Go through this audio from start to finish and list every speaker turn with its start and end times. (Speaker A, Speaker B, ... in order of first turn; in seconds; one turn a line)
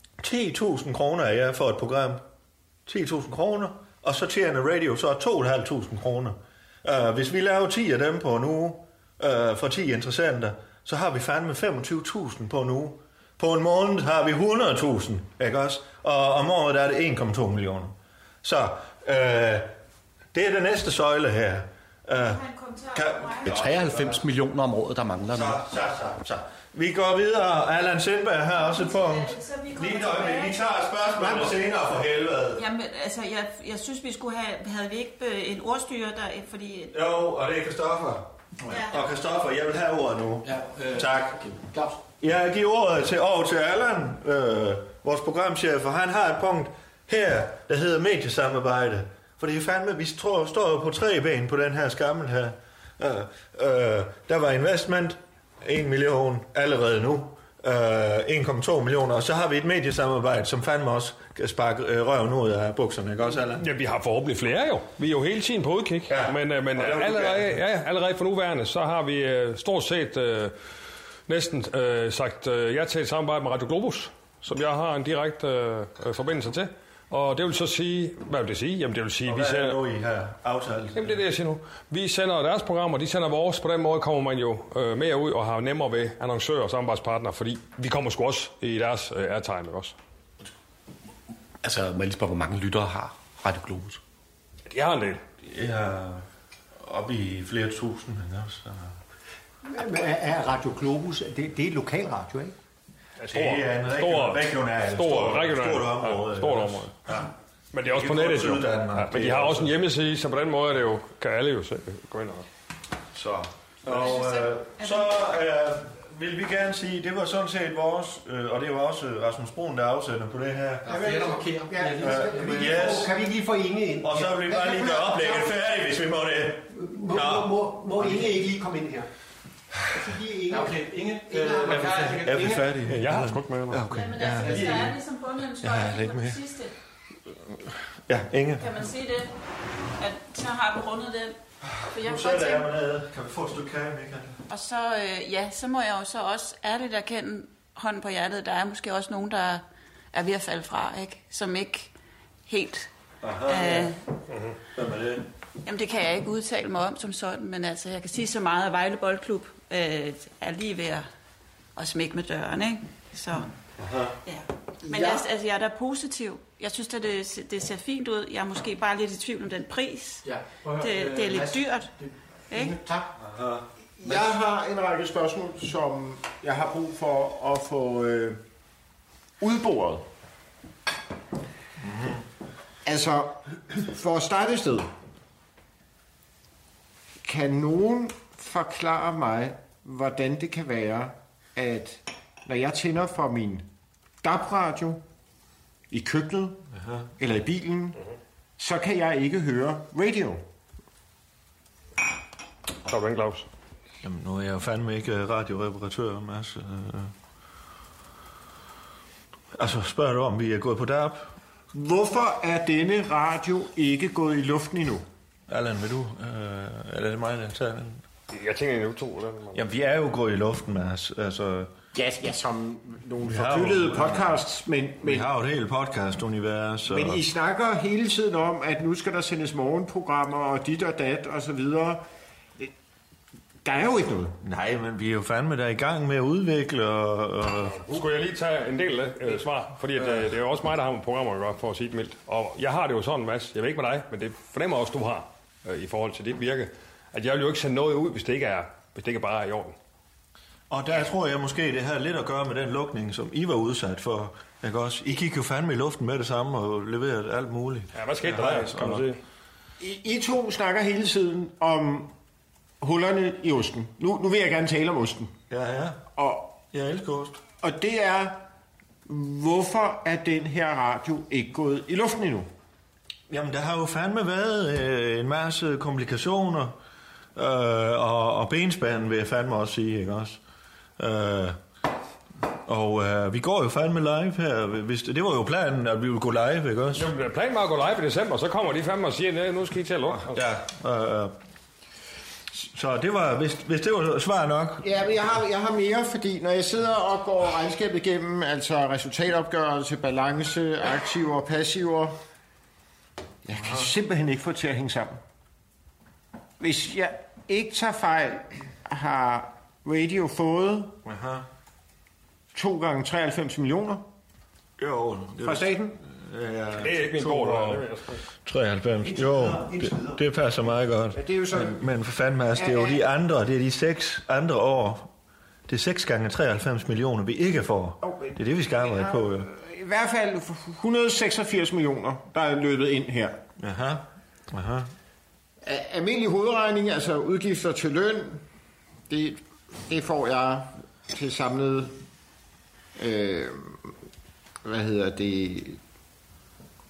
Speaker A: 0.2-2.2
Speaker A: 2.9-19.7
Speaker A: 20.3-24.2
Speaker B: 22.2-23.7
Speaker C: 23.4-25.6
Speaker A: 25.3-32.6
Speaker B: 28.6-30.6
Speaker B: 32.5-36.9
Speaker A: 36.9-41.4
Speaker B: 38.7-39.0
Speaker C: 40.4-41.9
Speaker A: 42.2-63.7
Speaker D: 63.6-70.5
Speaker A: 66.1-67.6
Speaker D: 71.3-79.8
Speaker A: 79.2-81.2
Speaker D: 80.9-89.9
Speaker C: 91.6-94.0
Speaker D: 94.7-95.2
Speaker A: 95.4-96.2
Speaker A: 96.8-98.9
Speaker E: 99.6-102.5
Speaker D: 103.2-107.0
Speaker A: 103.3-107.3
Speaker D: 107.7-112.5
Speaker A: 107.8-109.7
Speaker A: 113.1-121.0
Speaker B: 113.9-115.1
Speaker E: 120.9-125.5
Speaker C: 120.9-121.9
Speaker A: 122.0-123.2
Speaker A: 124.0-127.7
Speaker E: 126.7-129.1
Speaker E: 129.9-132.6
Speaker C: 130.5-132.6
Speaker A: 131.8-134.9
Speaker D: 132.9-133.8
Speaker B: 133.9-136.7
Speaker A: 135.6-136.4
Speaker A: 138.1-138.7
Speaker B: 138.6-139.3
Speaker B: 140.0-141.3
Speaker A: 141.6-144.4
Speaker B: 141.9-142.7
Speaker B: 144.5-151.9
Speaker B: 152.5-152.9
Speaker A: 153.2-153.9
Speaker B: 153.5-154.0
Speaker A: 154.7-155.2
Speaker B: 155.6-161.1
Speaker B: 161.8-163.5
Speaker A: 163.8-164.2
Speaker B: 164.2-171.9
Speaker F: 164.8-165.2
Speaker E: 170.9-171.5
Speaker B: 172.5-172.8
Speaker A: 173.2-173.6
Speaker F: 174.0-178.4
Speaker F: 179.4-180.0
Speaker A: 181.8-182.2
Speaker F: 182.8-184.9
Speaker F: 187.2-193.6
Speaker F: 194.2-195.0
Speaker F: 195.9-196.6
Speaker A: 196.7-197.1
Speaker F: 197.2-198.0
Speaker F: 198.6-200.4
Speaker D: 202.8-203.4
Speaker A: 204.0-207.1
Speaker A: 209.5-211.3
Speaker F: 211.7-215.0
Speaker A: 215.5-218.0
Speaker D: 218.3-219.6
Speaker A: 219.5-221.7
Speaker F: 221.9-225.3
Speaker A: 223.2-224.3
Speaker A: 225.0-227.2
Speaker F: 226.9-232.0
Speaker F: 233.6-234.3
Speaker A: 234.4-237.8
Speaker D: 237.8-249.7
Speaker A: 240.0-240.3
Speaker A: 250.7-259.1
Speaker D: 257.9-259.2
Speaker F: 259.8-262.1
Speaker F: 262.8-265.3
Speaker A: 265.5-266.0
Speaker F: 266.1-266.6
Speaker A: 266.6-267.4
Speaker F: 267.6-268.4
Speaker F: 269.1-272.5
Speaker A: 273.3-276.8
Speaker A: 277.4-280.4
Speaker A: 281.0-281.6
Speaker A: 282.6-287.1
Speaker D: 286.9-290.4
Speaker A: 290.1-291.4
Speaker A: 292.5-294.9
Speaker F: 294.8-302.1
Speaker F: 303.4-305.2
Speaker A: 303.5-303.9
Speaker F: 306.6-310.9
Speaker A: 311.0-311.4
Speaker F: 312.5-314.0
Speaker A: 314.8-317.8
Speaker F: 315.4-316.0
Speaker D: 316.8-318.2
Speaker A: 318.4-325.1
Speaker E: 319.1-320.2
Speaker F: 321.1-321.8
Speaker F: 322.5-323.0
Speaker A: 325.7-329.5
Speaker F: 328.0-333.4
Speaker A: 333.6-334.9
Speaker F: 335.6-338.4
Speaker F: 339.1-341.9
Speaker F: 343.0-343.9
Speaker F: 344.6-345.8